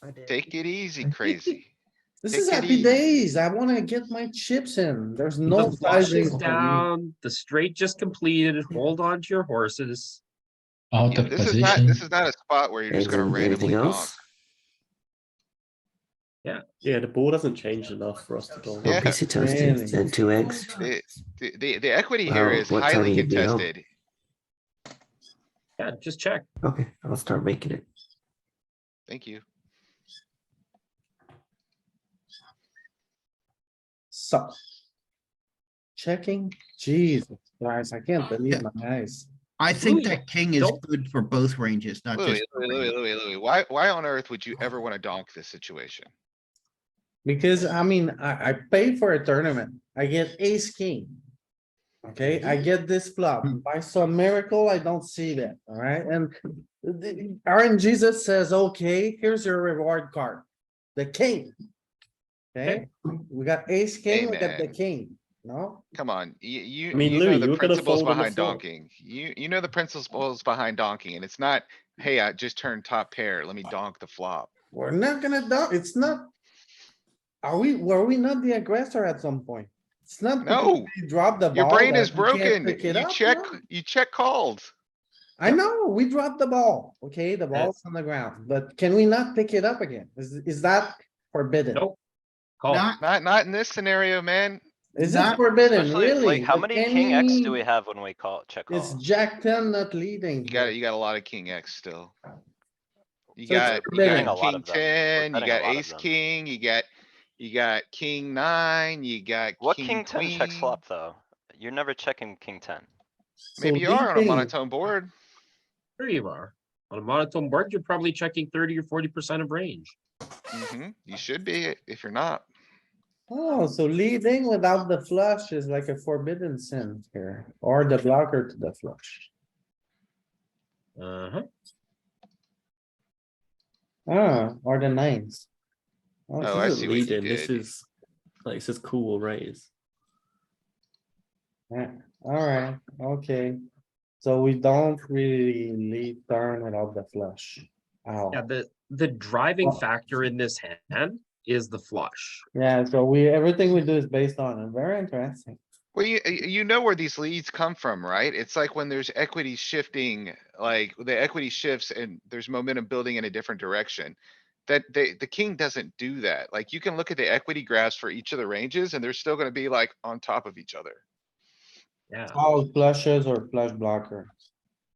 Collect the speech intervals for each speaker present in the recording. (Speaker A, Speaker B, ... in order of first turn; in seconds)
Speaker A: 0.3-1.7, 2.3-3.0, 11.1-14.2, 18.8-19.2, 20.6-23.8, 29.1-29.4, 42.1-46.1, 64.1-64.7, 65.9-74.5, 80.4-80.9, 81.5-84.7, 93.0-94.6, 100.4-102.1, 103.4-110.7, 113.6-115.1, 120.5-122.4, 136.4-137.6, 155.9-171.0
Speaker B: 2.2-6.8, 19.3-20.1, 34.1-34.5, 36.0-39.3, 47.2-51.2, 52.0-61.5, 62.5-65.8, 74.7-76.3, 77.4-83.6, 85.4-91.8, 95.0-97.6, 98.7-100.7, 103.5-104.3, 113.6-114.5, 123.3-129.3, 134.1-135.5, 136.3-136.8, 141.7-143.6, 144.2-148.4, 152.5-155.6, 172.3-174.3
Speaker C: 5.5-10.2, 25.8-26.5, 39.7-40.8, 92.6-92.9, 116.0-119.9, 131.0-131.4, 148.3-152.4, 172.1-172.4
Speaker D: 5.6-6.8, 10.9-12.0
Speaker E: 12.9-14.2, 18.8-20.7, 22.2-23.7, 26.6-27.9
Speaker F: 16.8-19.0, 66.9-68.6, 136.4-137.9, 138.4-139.7
Speaker G: 39.6-42.9, 92.7-93.0, 95.0-95.4
Speaker H: 95.6-99.0, 103.5-106.1, 109.6-112.8